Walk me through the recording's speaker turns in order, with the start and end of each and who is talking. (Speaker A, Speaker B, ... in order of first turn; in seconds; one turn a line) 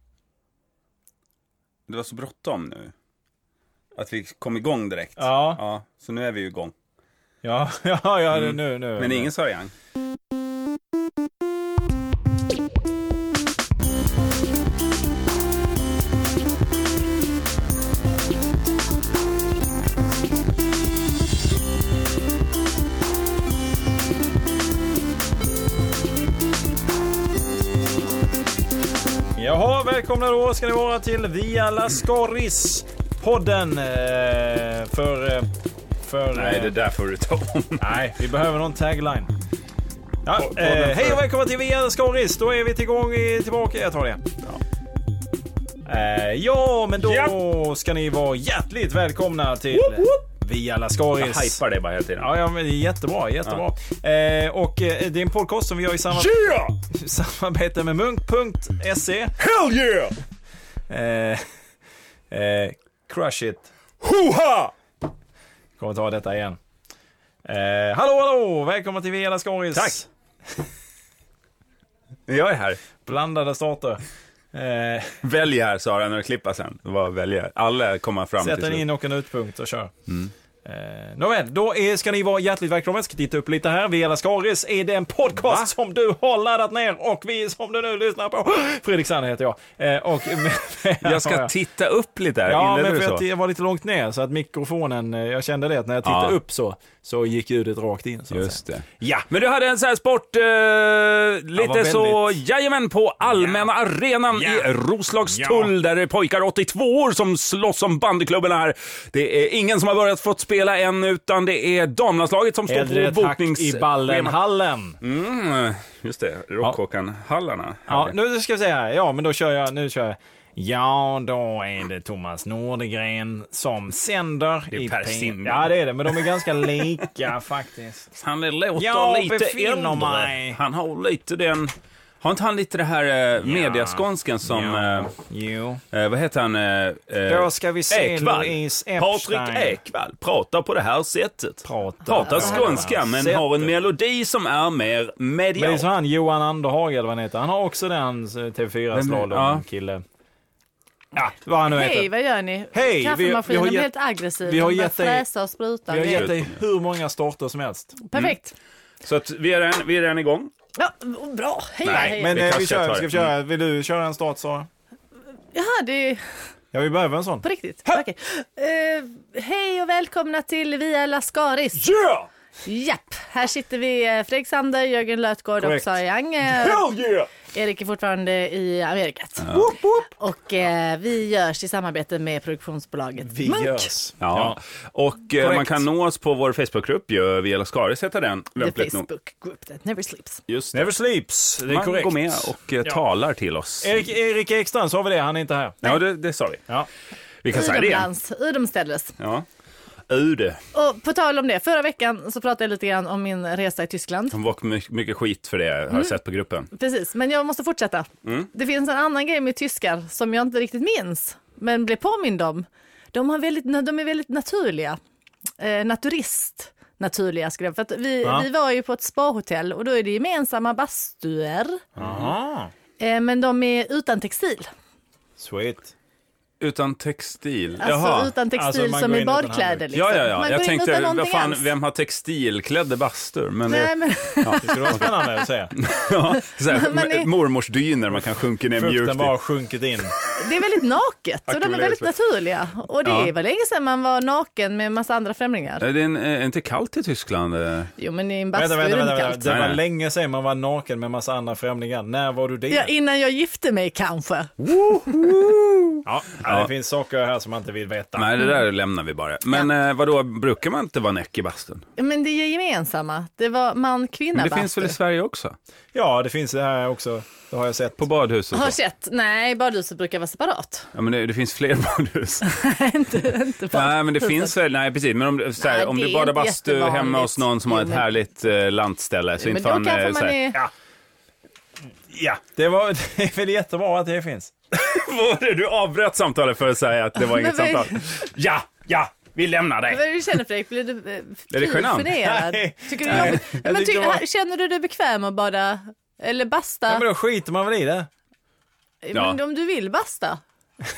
Speaker A: 1.9-2.9
Speaker A: 4.0-6.7
Speaker B: 5.2-5.6
Speaker B: 7.4-9.3
Speaker A: 8.3-9.7
Speaker B: 29.4-36.8
Speaker A: 36.3-37.9
Speaker B: 37.8-39.3
Speaker B: 40.2-44.3
Speaker A: 40.4-41.2
Speaker B: 45.9-51.6
Speaker A: 47.0-47.4
Speaker A: 49.7-50.2
Speaker A: 51.2-52.3
Speaker B: 52.2-56.4
Speaker A: 56.1-56.8
Speaker B: 56.9-59.3
Speaker A: 59.4-60.1
Speaker B: 60.9-61.4
Speaker B: 62.3-63.7
Speaker A: 64.0-64.7
Speaker B: 65.8-66.6
Speaker B: 67.4-70.1
Speaker A: 69.7-70.0
Speaker A: 72.3-72.8
Speaker B: 73.0-74.0
Speaker B: 74.5-75.2
Speaker A: 75.2-78.8
Speaker B: 78.4-79.9
Speaker B: 80.6-91.5
Speaker A: 91.0-93.2
Speaker B: 92.5-99.3
Speaker A: 96.0-96.4
Speaker A: 98.3-114.4
Speaker B: 101.5-102.4
Speaker B: 103.4-103.7
Speaker B: 104.3-104.7
Speaker B: 105.3-105.7
Speaker B: 112.7-115.0
Speaker A: 115.0-118.1
Speaker B: 117.9-128.1
Speaker A: 124.7-126.9
Speaker A: 128.1-135.1
Speaker B: 128.8-130.6
Speaker B: 133.4-135.8
Speaker A: 135.9-145.9
Speaker B: 137.3-139.8
Speaker B: 141.6-143.7
Speaker B: 145.6-150.0
Speaker A: 148.9-149.6
Speaker B: 151.1-152.1
Speaker C: 151.7-156.3
Speaker B: 152.7-153.9
Speaker B: 154.4-155.2
Speaker B: 155.9-158.0
Speaker A: 156.1-156.4
Speaker C: 158.0-158.5
Speaker A: 159.0-160.5
Speaker C: 160.8-162.3
Speaker A: 161.8-163.3
Speaker B: 161.8-164.7
Speaker C: 165.5-166.2
Speaker B: 166.7-167.4
Speaker C: 167.4-171.8
Speaker A: 171.7-172.3
Speaker C: 172.6-176.8
Speaker B: 175.6-175.9
Speaker A: 176.5-177.3
Speaker C: 177.4-183.9
Speaker A: 179.4-179.7
Speaker B: 179.5-180.0
Speaker B: 183.2-184.6
Speaker A: 184.2-189.1
Speaker B: 185.4-185.8
Speaker C: 188.6-190.4
Speaker A: 190.5-190.9
Speaker B: 190.7-193.0
Speaker A: 191.6-194.0
Speaker B: 193.8-195.8
Speaker A: 195.8-196.7
Speaker A: 197.4-198.1
Speaker C: 197.5-199.2
Speaker A: 199.2-199.4
Speaker A: 200.1-200.6
Speaker C: 200.7-204.3
Speaker A: 204.3-206.7
Speaker C: 206.7-215.0
Speaker A: 208.2-208.5
Speaker C: 215.6-221.8
Speaker B: 218.2-218.5
Speaker B: 222.0-222.7
Speaker C: 223.0-224.7
Speaker B: 225.4-225.9
Speaker A: 226.6-228.3
Speaker C: 227.8-231.7
Speaker B: 228.5-229.8
Speaker A: 229.9-235.1
Speaker C: 233.7-235.3
Speaker B: 234.6-235.7
Speaker A: 235.7-239.3
Speaker C: 236.4-237.3
Speaker B: 238.7-240.1
Speaker C: 240.3-245.8
Speaker B: 241.5-242.1
Speaker A: 243.0-243.3
Speaker A: 245.8-247.9
Speaker C: 248.0-249.5
Speaker B: 248.5-252.9
Speaker A: 249.4-249.8
Speaker C: 252.7-254.5
Speaker A: 254.6-256.7
Speaker B: 256.0-258.3
Speaker A: 258.1-261.8
Speaker C: 262.0-264.9
Speaker A: 264.3-265.6
Speaker B: 265.9-268.0
Speaker A: 268.0-268.8
Speaker C: 268.5-270.9
Speaker A: 270.9-272.5
Speaker C: 272.4-274.5
Speaker A: 273.7-280.4
Speaker C: 275.6-278.1
Speaker C: 279.4-280.6
Speaker B: 282.1-284.5
Speaker A: 284.7-290.0
Speaker C: 287.1-288.2
Speaker C: 289.9-297.0
Speaker A: 291.5-292.2
Speaker B: 292.2-294.2
Speaker A: 293.1-293.6
Speaker B: 296.9-298.1
Speaker C: 299.0-300.4
Speaker A: 299.1-299.4